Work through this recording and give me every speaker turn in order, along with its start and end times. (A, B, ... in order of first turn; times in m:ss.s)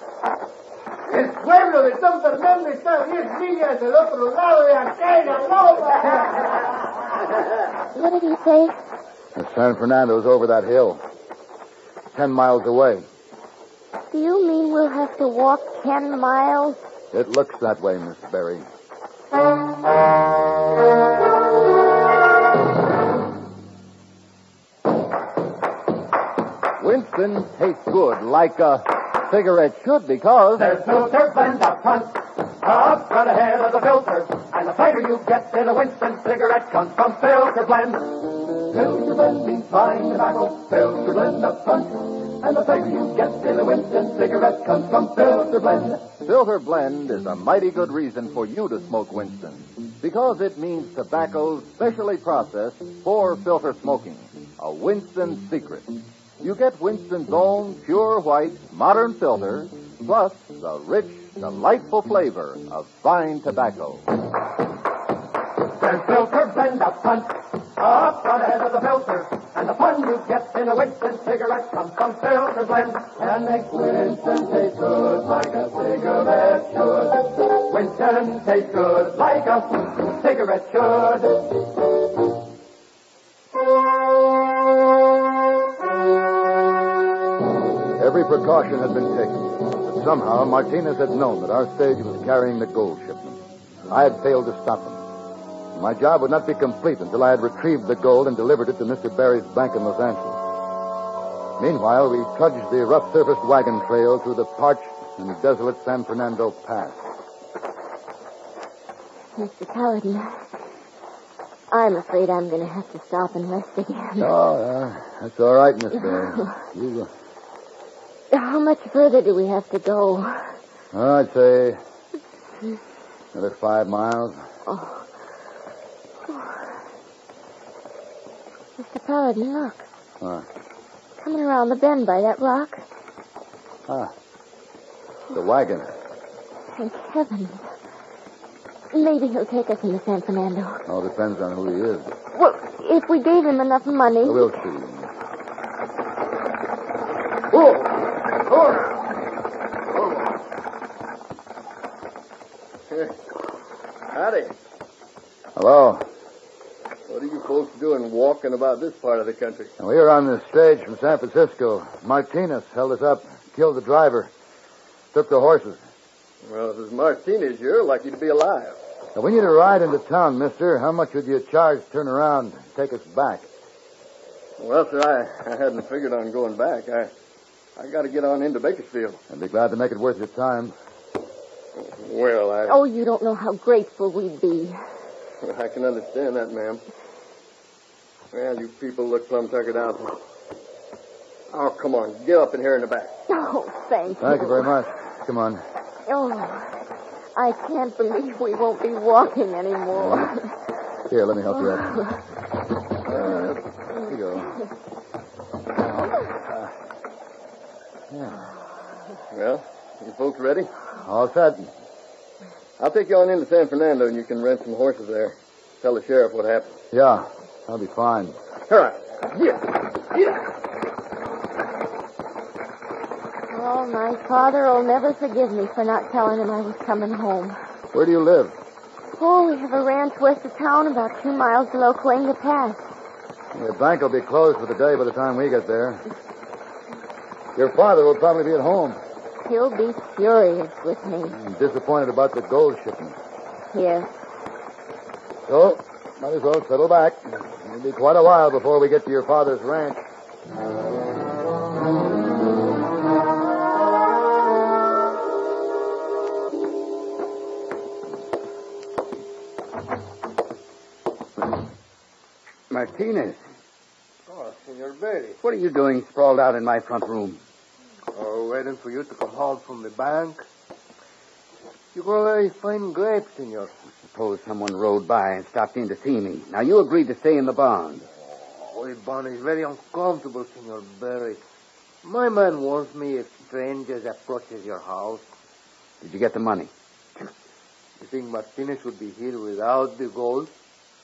0:01.0-0:06.4 A
0:07.9-0:08.8 B
0:09.3-0:11.0 C
0:12.1-0:13.0 C
0:14.1-0:16.8 B
0:17.1-0:18.6 C
0:26.8-0:30.7 D
0:30.6-0:46.1 E
0:46.2-1:04.1 D
1:05.8-1:21.5 E
1:28.0-1:35.0 C
1:35.7-1:40.4 C
1:41.6-1:47.0 C
1:49.4-1:50.4 B
1:51.7-1:54.3 B
1:54.2-1:57.1 C
1:58.3-2:00.5 B
2:00.9-2:01.8 C
2:03.3-2:04.4 C
2:04.7-2:05.0 B
2:06.3-2:06.5 B
2:08.8-2:09.8 B
2:10.2-2:10.4 C
2:11.2-2:12.8 B
2:13.9-2:14.1 C
2:15.3-2:15.9 C
2:16.7-2:17.6 B
2:18.9-2:20.8 B
2:20.9-2:22.1 C
2:22.3-2:24.5 B
2:24.2-2:25.1 C
2:32.9-2:33.2 F
2:34.1-2:34.5 F
2:35.6-2:36.0 C
2:37.1-2:39.7 F
2:39.8-2:44.3 C
2:45.1-2:45.8 C
2:46.4-2:48.8 F
2:49.1-2:53.4 C
2:54.6-2:57.1 F
2:57.8-2:59.2 F
2:59.3-3:00.7 C
3:01.8-3:02.8 F
3:02.6-3:04.8 B
3:05.4-3:06.8 F
3:08.3-3:10.2 F
3:11.5-3:13.1 F
3:13.3-3:14.7 B
3:14.2-3:15.6 C
3:16.0-3:16.7 B
3:17.4-3:20.5 B
3:19.9-3:20.3 C
3:21.1-3:22.0 C
3:23.1-3:24.6 C
3:28.1-3:28.4 C
3:29.3-3:30.7 F
3:31.0-3:31.7 C
3:32.8-3:36.7 F
3:36.9-3:38.4 C
3:38.7-3:40.3 F
3:43.5-3:47.6 B
3:47.9-3:48.6 C
3:49.2-3:52.9 B
3:53.5-3:56.0 C
3:57.6-3:59.0 C
3:59.4-4:01.4 B
4:01.3-4:03.2 C
4:03.7-4:04.1 B
4:05.5-4:10.0 C
4:22.7-4:23.4 G
4:24.3-4:25.4 A
4:25.4-4:27.4 G
4:28.1-4:30.4 A
4:31.9-4:33.7 A
4:34.1-4:38.0 G
4:38.6-4:41.4 A
4:42.0-4:45.2 A
4:46.0-4:46.7 G
4:48.0-4:50.5 A